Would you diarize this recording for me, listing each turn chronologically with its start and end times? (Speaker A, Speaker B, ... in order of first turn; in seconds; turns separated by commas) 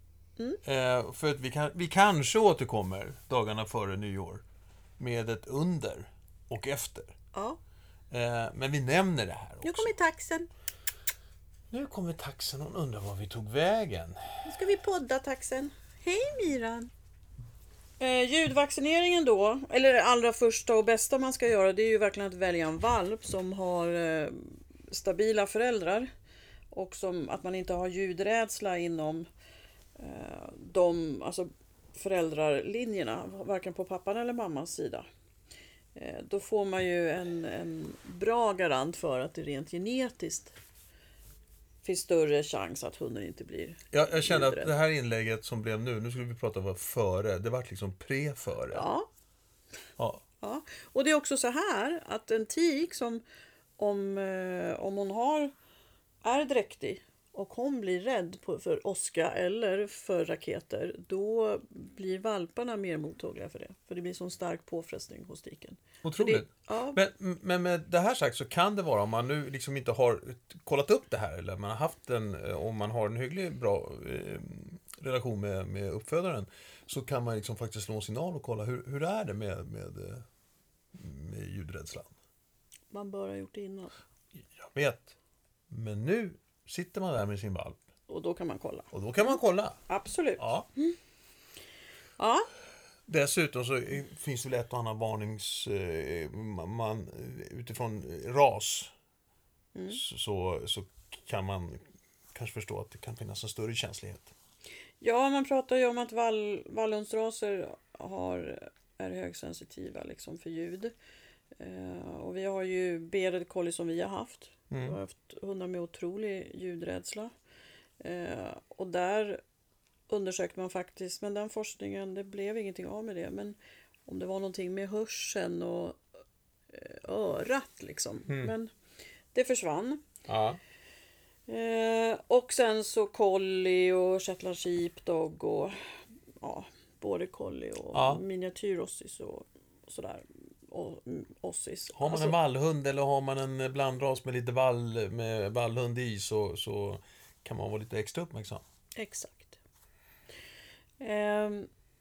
Speaker A: 0.6-4.4, Speaker A: 5.0-7.2, Speaker B: 7.3-7.6, Speaker A: 8.1-9.9, Speaker B: 9.6-10.5, Speaker A: 11.7-14.2, Speaker B: 14.4-16.9, Speaker B: 18.0-26.1, Speaker B: 26.7-29.3, Speaker B: 30.0-35.0, Speaker B: 35.9-40.5, Speaker B: 41.8-44.7, Speaker A: 43.9-48.8, Speaker B: 48.7-49.1, Speaker B: 50.4-53.2, Speaker B: 53.8-55.5, Speaker B: 56.2-67.0, Speaker A: 66.0-80.2, Speaker A: 80.9-82.1, Speaker B: 82.9-83.9, Speaker A: 84.6-85.1, Speaker A: 85.7-87.8, Speaker B: 88.1-89.3, Speaker A: 88.9-89.8, Speaker B: 89.9-91.0, Speaker A: 90.4-90.7, Speaker B: 92.2-92.5, Speaker A: 93.1-98.9, Speaker B: 99.7-100.0, Speaker A: 99.9-101.8, Speaker A: 102.3-104.3, Speaker B: 105.0-110.9, Speaker B: 111.5-117.3, Speaker A: 114.7-115.0, Speaker B: 118.0-119.4, Speaker B: 120.1-126.0, Speaker B: 126.7-128.7, Speaker A: 128.3-128.5, Speaker B: 129.3-130.0, Speaker A: 130.3-130.6, Speaker B: 131.5-135.9, Speaker B: 136.4-142.3, Speaker A: 137.9-138.2, Speaker A: 141.9-148.6, Speaker B: 148.9-149.6, Speaker B: 151.0-151.7